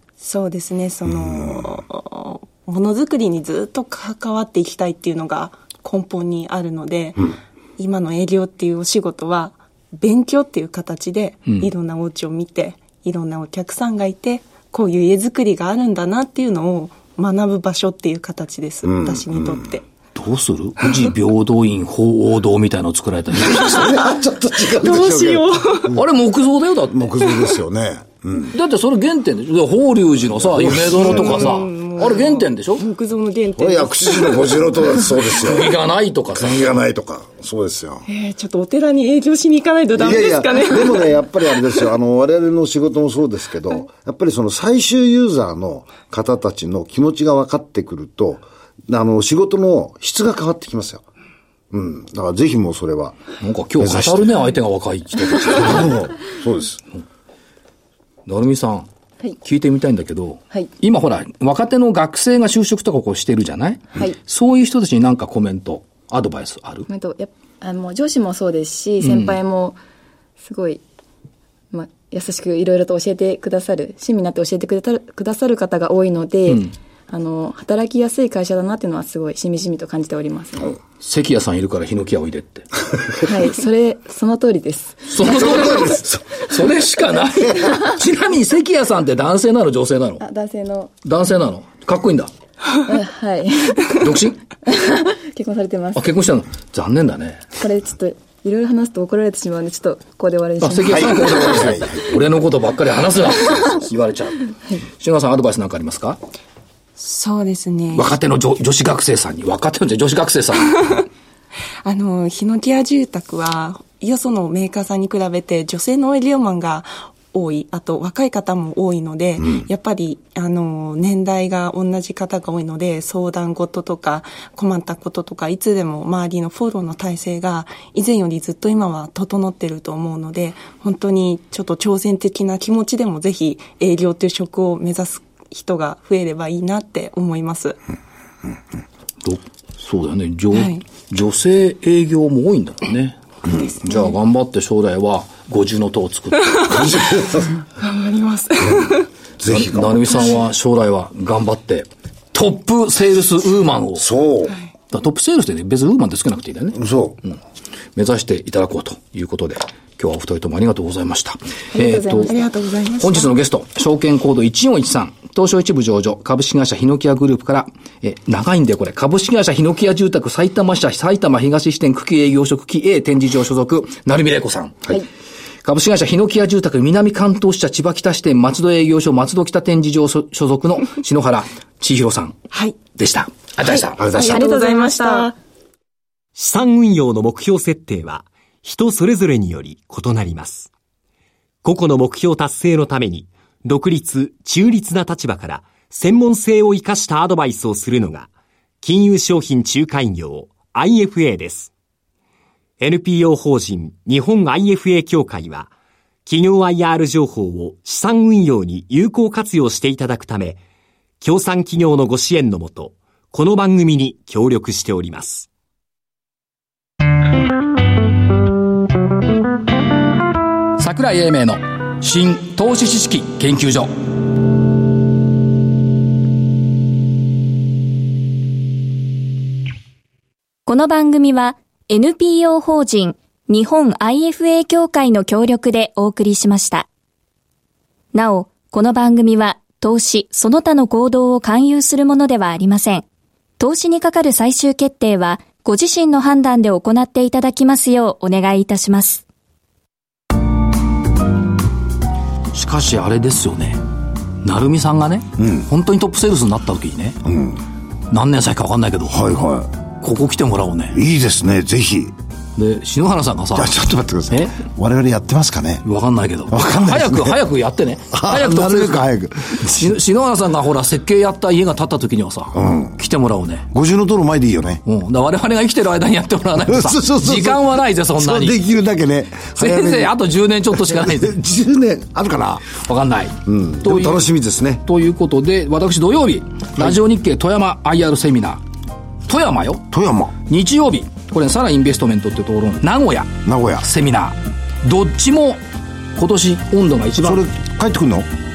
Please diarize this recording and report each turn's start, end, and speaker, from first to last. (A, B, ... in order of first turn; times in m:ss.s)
0:00.2-0:19.8 A
0:18.8-0:19.7 B
0:20.1-0:24.0 C
0:23.4-0:26.0 B
0:24.7-0:26.0 A
0:25.9-0:27.2 C
0:26.9-0:28.5 B
0:28.5-0:32.8 C
0:30.3-0:31.6 B
0:30.8-0:34.8 A
0:33.6-0:35.7 B
0:35.3-0:36.6 C
0:36.3-0:38.0 B
0:38.1-0:41.3 A
0:39.9-0:51.0 B
0:51.7-0:53.2 B
0:53.4-0:55.9 C
0:53.8-0:54.4 B
0:55.4-0:56.8 B
0:58.2-0:58.9 C
0:59.4-1:06.9 C
1:06.9-1:09.8 D
1:09.0-1:09.4 C
1:10.4-1:10.8 D
1:11.7-1:20.8 D
1:21.0-1:22.7 C
1:23.2-1:26.0 D
1:25.1-1:30.2 C
1:30.2-1:31.0 D
1:31.0-1:32.3 C
1:32.8-1:36.0 D
1:33.9-1:34.4 C
1:35.9-1:37.5 C
1:37.6-1:41.7 D
1:40.6-1:46.2 C
1:40.8-1:42.1 B
1:47.0-1:48.2 A
1:47.9-1:51.0 C
1:51.8-2:17.8 A
2:19.2-2:23.2 C
2:20.5-2:20.8 A
2:23.6-2:24.1 A
2:23.8-2:27.0 C
2:26.6-2:27.6 B
2:27.8-2:29.1 A
2:28.6-2:30.2 B
2:29.4-2:34.1 C
2:34.0-2:34.6 B
2:34.9-2:37.4 C
2:36.7-2:37.2 B
2:37.9-2:42.4 C
2:41.7-2:42.4 D
2:42.2-2:43.3 A
2:43.0-2:55.0 C
2:55.6-3:02.4 C
3:02.5-3:02.8 A
3:03.0-3:04.1 C
3:03.6-3:05.4 A
3:04.0-3:04.4 B
3:04.2-3:05.3 D
3:06.4-3:10.7 E
3:11.6-3:18.3 E
3:18.8-3:21.7 E
3:22.8-3:25.7 E
3:26.2-3:30.6 E
3:31.2-3:35.5 E
3:40.8-3:44.0 C
3:50.6-3:56.8 F
3:58.1-4:03.0 F
4:03.6-4:09.2 F
4:12.5-4:13.8 C
4:14.4-4:17.2 C
4:15.4-4:15.7 B
4:17.2-4:17.6 B
4:18.1-4:19.2 C
4:19.1-4:19.7 B
4:20.0-4:21.0 C
4:20.9-4:22.1 B
4:22.6-4:23.7 C
4:23.5-4:25.8 B
4:24.3-4:24.6 C
4:25.8-4:29.0 C
4:26.5-4:27.4 B
4:28.1-4:29.9 B
4:29.6-4:33.7 C
4:32.5-4:33.0 B
4:33.7-4:34.8 B
4:34.8-4:38.6 C
4:36.6-4:40.1 B
4:39.6-4:41.4 C
4:40.8-4:42.7 B
4:42.7-4:44.3 C
4:43.4-4:44.8 B
4:44.8-4:48.6 C
4:49.2-4:49.9 C
4:49.9-4:50.3 B
4:50.4-4:55.6 C
4:53.4-4:53.9 B
4:56.2-4:57.4 C
4:57.2-4:58.3 B